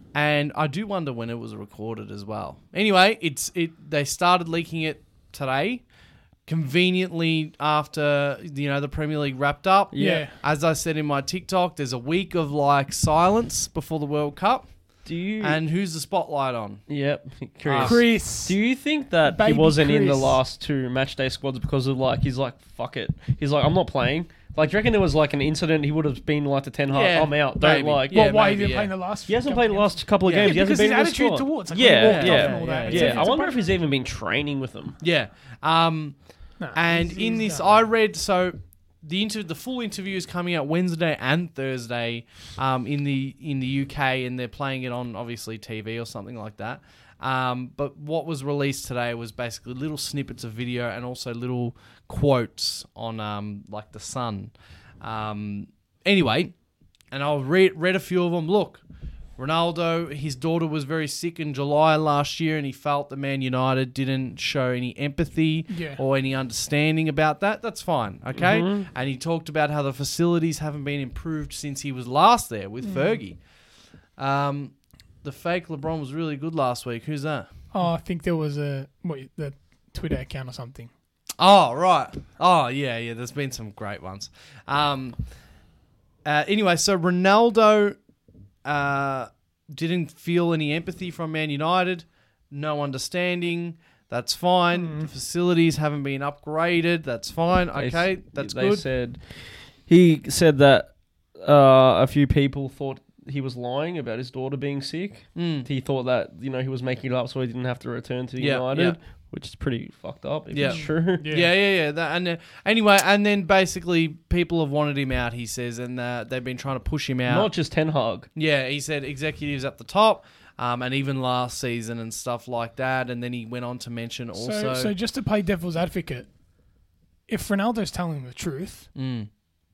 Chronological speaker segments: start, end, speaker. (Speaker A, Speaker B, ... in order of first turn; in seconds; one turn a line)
Speaker A: 0.1-5.8
Speaker A: 6.5-14.7
Speaker B: 9.9-10.2
Speaker C: 9.9-10.3
Speaker B: 15.0-15.6
Speaker A: 15.4-16.8
Speaker B: 16.9-28.2
Speaker A: 17.6-18.0
Speaker C: 17.8-18.6
Speaker C: 19.2-20.4
Speaker A: 26.9-28.9
Speaker C: 28.1-33.7
Speaker B: 29.3-35.0
Speaker A: 30.2-30.5
Speaker A: 32.0-33.3
Speaker A: 35.0-36.2
Speaker C: 36.6-37.9
Speaker A: 36.7-56.5
Speaker A: 57.1-58.8
Speaker A: 59.4-73.4
Speaker C: 65.7-66.0
Speaker B: 68.3-68.9
Speaker C: 72.8-73.2
Speaker A: 74.2-77.5
Speaker C: 77.7-80.9
Speaker A: 81.4-85.2
Speaker A: 86.2-88.0
Speaker A: 88.7-98.8
Speaker C: 94.7-95.1
Speaker B: 97.8-111.3
Speaker A: 105.3-105.7
Speaker A: 108.4-109.0
Speaker A: 110.5-117.5
Speaker C: 110.6-111.5
Speaker B: 117.3-118.3
Speaker A: 118.3-124.9
Speaker C: 124.4-126.3
Speaker C: 127.3-128.9
Speaker A: 128.9-129.3